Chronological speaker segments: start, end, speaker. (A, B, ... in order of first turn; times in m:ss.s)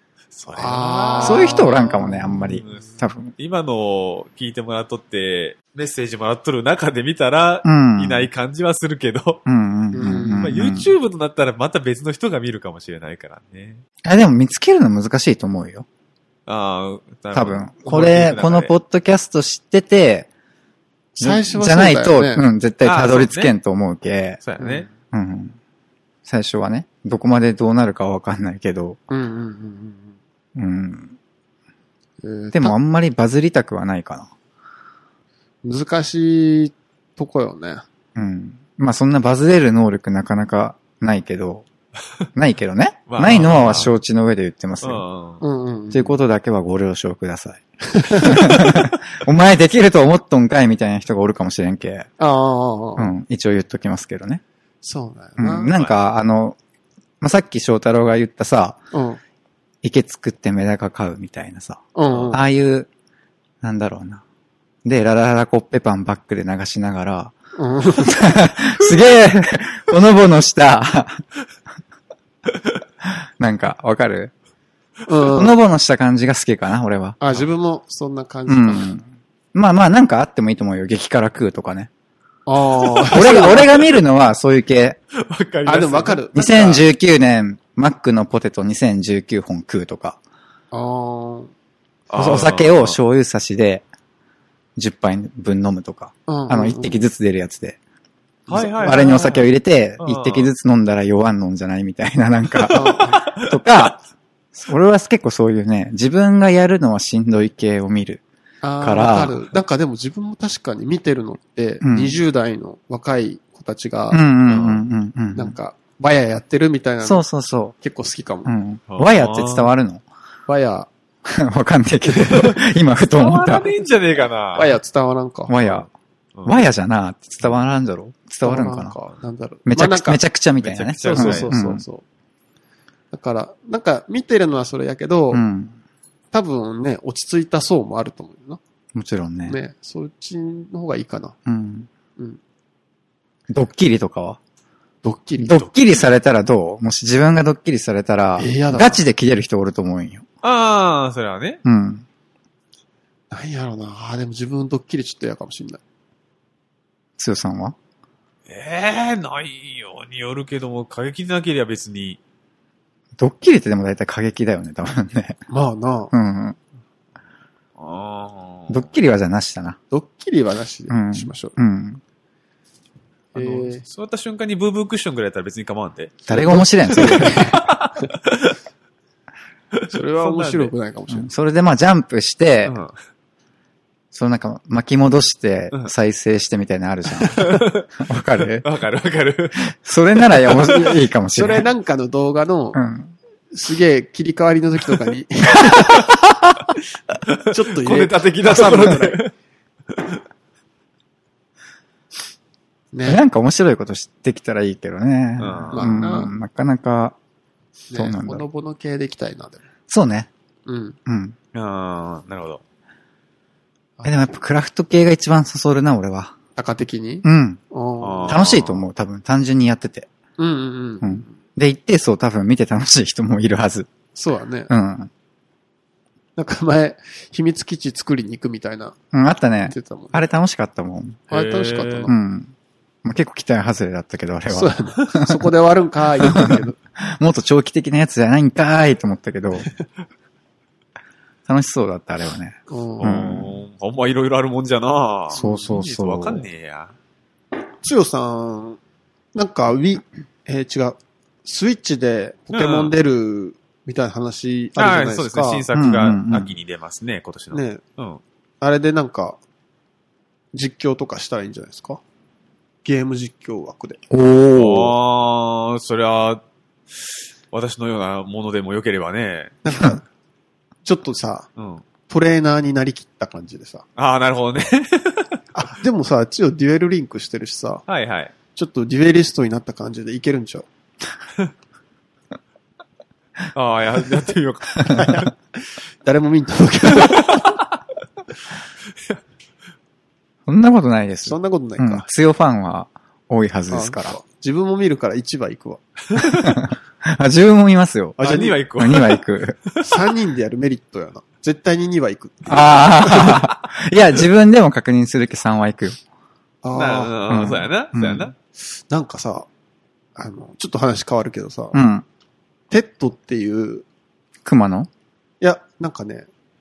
0:00.3-0:09.4 A
0:00.6-0:02.1 B
0:01.2-0:03.3 C
0:07.6-0:08.3 C
0:09.5-0:10.9 C
0:09.9-0:10.5 B
0:10.4-0:13.8 A
0:14.0-0:15.9 C
0:16.5-0:18.7 A
0:17.3-0:20.3 C
0:21.2-0:22.4 B
0:21.2-0:24.4 C
0:22.8-0:23.5 A
0:24.4-0:24.9 A
0:24.6-0:24.9 B
0:25.1-0:25.6 C
0:26.2-0:29.0 C
0:29.1-0:30.1 B
0:30.6-0:31.2 C
0:32.2-0:32.8 B
0:32.5-0:34.3 C
0:35.6-0:37.8 B
0:38.2-0:41.7 C
0:42.4-0:45.0 C
0:43.1-0:43.9 A
0:44.8-0:45.4 A
0:45.4-0:46.2 B
0:45.9-0:52.1 C
0:47.9-0:48.6 B
0:52.2-0:53.1 B
0:53.0-0:54.4 C
0:54.8-0:55.7 B
0:55.4-0:56.6 C
0:57.2-0:58.8 C
0:58.9-0:59.2 B
0:59.8-1:02.9 C
1:02.0-1:02.4 B
1:03.6-1:04.2 C
1:04.8-1:07.4 C
1:07.6-1:08.2 B
1:07.9-1:11.2 C
1:13.1-1:14.3 C
1:15.1-1:15.6 B
1:15.3-1:17.2 C
1:17.2-1:18.9 B
1:18.5-1:21.9 C
1:22.5-1:23.7 B
1:23.0-1:23.6 A
1:23.1-1:25.0 C
1:25.1-1:26.2 A
1:25.7-1:26.8 B
1:26.3-1:30.2 C
1:30.7-1:31.5 B
1:32.1-1:33.0 A
1:32.2-1:33.8 C
1:34.8-1:37.8 C
1:36.3-1:37.0 B
1:38.5-1:39.4 A
1:38.5-1:39.4 B
1:38.6-1:44.0 C
1:40.0-1:40.5 A
1:42.6-1:43.6 A
1:42.7-1:43.3 B
1:44.6-1:48.2 C
1:48.6-1:54.8 B
1:48.8-1:49.4 C
1:51.8-1:52.2 C
1:54.1-1:55.6 C
1:55.3-1:57.2 B
1:57.0-1:57.8 C
1:57.8-1:58.5 B
1:58.4-2:00.0 C
1:58.9-1:59.7 A
2:00.5-2:00.9 B
2:01.2-2:03.7 C
2:02.1-2:02.6 A
2:03.1-2:04.8 A
2:04.6-2:05.5 B
2:05.5-2:05.9 C
2:05.6-2:05.8 A
2:06.4-2:06.7 A
2:06.5-2:09.0 C
2:08.4-2:10.2 B
2:09.7-2:11.8 C
2:10.6-2:11.6 A
2:11.0-2:12.0 B
2:13.1-2:15.4 B
2:15.3-2:15.7 C
2:16.3-2:18.6 B
2:18.9-2:19.6 C
2:19.5-2:21.4 B
2:21.5-2:21.9 C
2:23.5-2:24.4 C
2:25.0-2:25.7 B
2:25.4-2:30.2 C
2:28.4-2:29.0 B
2:30.4-2:31.6 A
2:31.6-2:32.0 C
2:33.3-2:35.8 B
2:37.2-2:37.8 C
2:38.5-2:42.2 A
2:43.2-2:45.4 C
2:45.5-2:46.1 B
2:46.1-2:46.6 C
2:47.8-2:48.9 A
2:48.7-2:49.8 C
2:49.9-2:51.6 B
2:50.9-2:52.0 C
2:53.4-2:53.8 B
2:53.4-2:58.6 A
2:56.3-2:57.6 C
2:56.4-2:58.1 B
2:59.7-3:00.7 A
2:59.9-3:01.3 B
3:01.1-3:02.8 C
3:02.6-3:02.9 A
3:04.1-3:08.6 C
3:07.3-3:07.9 A
3:08.6-3:09.7 A
3:09.8-3:11.7 C
3:10.3-3:11.0 A
3:11.3-3:12.8 B
3:12.8-3:13.1 C
3:13.5-3:16.1 B
3:17.3-3:19.3 A
3:17.5-3:19.2 B
3:19.9-3:20.2 A
3:22.9-3:23.2 B
3:23.0-3:27.2 C
3:25.4-3:25.9 A
3:25.7-3:26.3 B
3:27.9-3:29.6 B
3:27.9-3:28.4 C
3:29.9-3:30.3 C
3:30.7-3:31.0 B
3:31.1-3:31.4 C
3:31.5-3:32.6 A
3:34.0-3:34.3 B
3:34.0-3:36.4 C
3:36.6-3:38.5 B
3:37.2-3:37.6 C
3:38.0-3:38.9 A
3:38.3-3:40.1 C
3:40.4-3:41.3 B
3:41.0-3:43.9 C
3:44.2-3:44.7 B
3:44.7-3:45.1 C
3:46.4-3:49.0 B
3:49.1-3:51.2 C
3:49.6-3:50.2 B
3:51.3-3:52.1 B
3:51.3-3:52.1 A
3:52.1-3:52.5 C
3:53.0-3:55.5 C
3:54.5-3:56.8 B
3:56.2-3:59.7 C
4:01.5-4:03.6 C
4:02.7-4:03.4 B
4:03.0-4:06.9 A
4:05.3-4:05.8 B
4:05.3-4:06.5 C
4:07.8-4:08.8 B
4:09.3-4:15.7 B
4:12.5-4:12.9 A
4:14.8-4:18.2 A
4:15.7-4:16.5 C
4:17.5-4:17.8 B
4:18.6-4:19.4 B
4:20.5-4:22.0 B
4:22.8-4:24.0 B
4:24.1-4:25.0 C
4:24.5-4:26.4 A
4:26.9-4:29.6 A
4:29.6-4:30.0 B
4:30.8-4:31.5 B
4:31.6-4:31.8 A
4:32.1-4:33.8 B
4:34.0-4:35.4 A
4:35.5-4:37.8 B
4:37.9-4:38.3 A
4:38.6-4:40.7 B
4:43.5-4:45.3 A
4:44.9-4:47.6 B
4:47.0-4:47.5 A
4:50.5-4:54.2 C
4:51.2-4:52.1 B
4:53.7-4:55.8 B
4:56.2-4:58.2 C
4:58.2-4:58.6 B
4:58.2-4:59.2 A
4:58.8-4:59.6 C
4:59.8-5:03.4 B
5:02.5-5:06.0 C
5:06.6-5:07.4 B
5:06.7-5:08.3 A
5:07.3-5:08.3 C
5:08.7-5:09.5 B
5:10.2-5:11.8 B
5:11.7-5:12.0 C
5:12.7-5:13.8 B
5:14.4-5:14.9 C
5:15.4-5:16.3 B